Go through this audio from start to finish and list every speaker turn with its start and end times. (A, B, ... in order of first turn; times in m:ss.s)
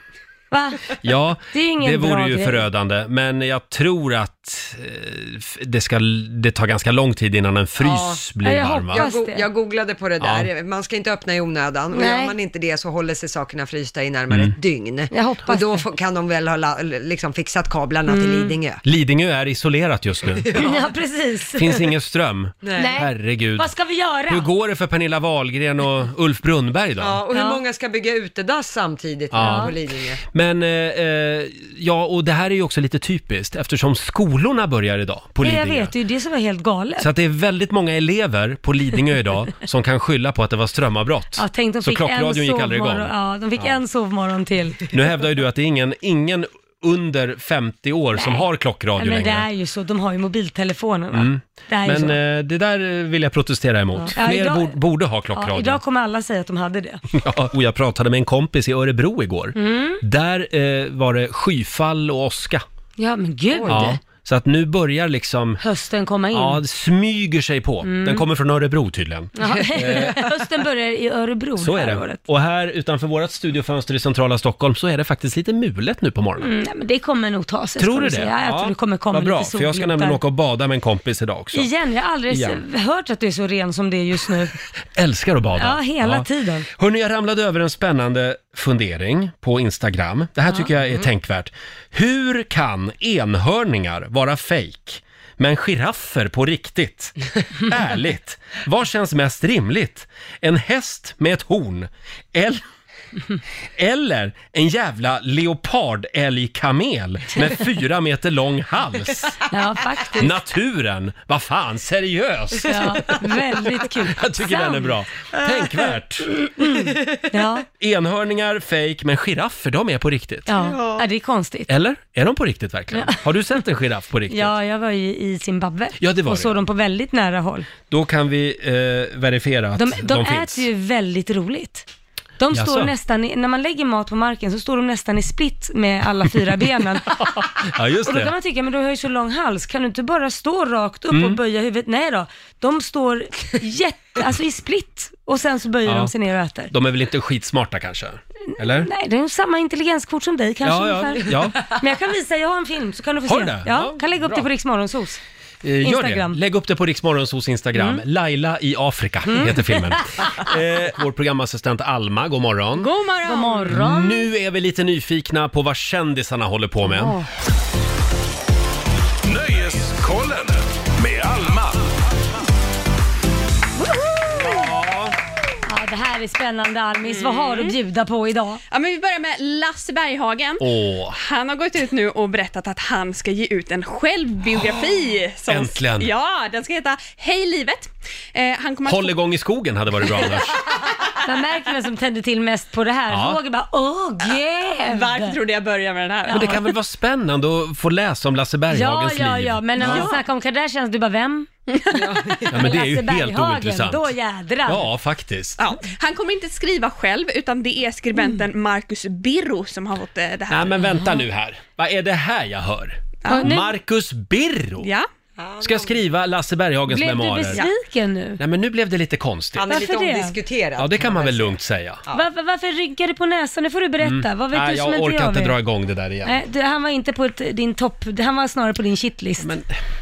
0:00.5-0:01.0 A
0:01.0-0:09.0 B
0:01.5-0:02.6 A
0:07.8-0:08.2 C
0:08.4-0:09.4 A
0:08.9-0:18.8 C
0:10.2-0:10.5 B
0:11.9-0:12.3 A
0:15.1-0:15.8 A
0:18.1-0:18.6 A
0:18.8-0:20.5 B
0:20.4-0:20.8 C
0:20.5-0:21.8 A
0:21.6-0:23.7 B
0:22.6-0:23.0 C
0:22.8-0:24.5 A
0:24.3-0:27.2 B
0:27.0-0:30.2 C
0:27.3-0:27.6 A
0:29.3-0:29.7 B
0:29.4-0:29.7 A
0:30.3-0:35.9 B
0:35.4-0:37.1 A
0:37.0-0:43.7 B
0:41.4-0:44.9 A
0:44.9-0:49.4 B
0:48.2-0:48.4 A
0:49.0-0:52.2 A
0:51.1-0:55.8 B
0:54.0-0:54.8 A
0:55.3-0:57.0 A
0:57.1-1:02.6 B
0:59.6-1:00.0 A
1:03.0-1:04.0 A
1:03.5-1:03.9 C
1:03.7-1:05.6 B
1:05.6-1:06.6 A
1:06.3-1:10.2 B
1:07.8-1:08.2 A
1:09.4-1:12.2 A
1:11.6-1:16.5 B
1:16.4-1:20.2 A
1:17.8-1:21.7 B
1:21.5-1:24.5 A
1:22.3-1:22.6 B
1:25.0-1:42.6 B
1:25.6-1:26.7 A
1:43.8-1:49.4 B
1:49.5-1:50.3 A
1:50.2-1:56.3 B
1:52.6-1:54.9 A
1:56.6-1:57.6 A
1:57.8-2:00.5 B
2:00.5-2:01.7 A
2:00.6-2:01.0 C
2:01.7-2:04.5 B
2:02.9-2:03.2 A
2:04.3-2:07.7 A
2:06.0-2:06.6 B
2:07.9-2:10.6 B
2:09.8-2:11.8 A
2:12.4-2:17.4 A
2:12.5-2:12.9 B
2:17.1-2:18.3 B
2:18.0-2:26.7 A
2:21.1-2:21.4 B
2:25.8-2:26.1 B
2:26.7-2:28.9 B
2:28.6-2:35.2 A
2:30.6-2:31.7 B
2:33.3-2:34.4 B
2:35.6-2:42.9 B
2:35.8-2:36.4 A
2:37.7-2:38.0 A
2:39.3-2:40.4 A
2:42.8-2:43.8 D
2:43.2-2:44.3 A
2:43.7-2:47.1 B
2:46.8-2:47.3 A
2:49.2-2:51.8 E
2:53.8-2:54.8 A
2:54.4-2:55.1 B
2:55.7-2:58.6 A
2:57.0-2:57.7 D
2:58.7-3:09.1 D
3:00.6-3:01.2 B
3:05.5-3:06.1 B
3:08.8-3:10.6 B
3:10.2-3:10.7 D
3:11.2-3:15.4 A
3:13.1-3:13.4 B
3:14.2-3:16.6 D
3:16.3-3:20.1 B
3:18.7-3:24.9 A
3:19.8-3:20.2 D
3:21.7-3:22.4 D
3:22.5-3:24.1 B
3:24.6-3:25.6 B
3:25.6-3:30.8 D
3:28.2-3:28.4 A
3:30.5-3:34.9 B
3:30.9-3:31.2 A
3:33.3-3:33.7 A
3:34.8-3:35.0 D
3:35.4-3:35.9 C
3:35.6-3:37.6 B
3:36.9-3:38.4 A
3:38.4-3:39.7 B
3:39.6-3:42.2 C
3:39.7-3:40.3 A
3:40.8-3:42.0 B
3:42.1-3:45.6 A
3:44.0-3:46.4 B
3:46.2-3:49.5 A
3:49.4-3:49.7 B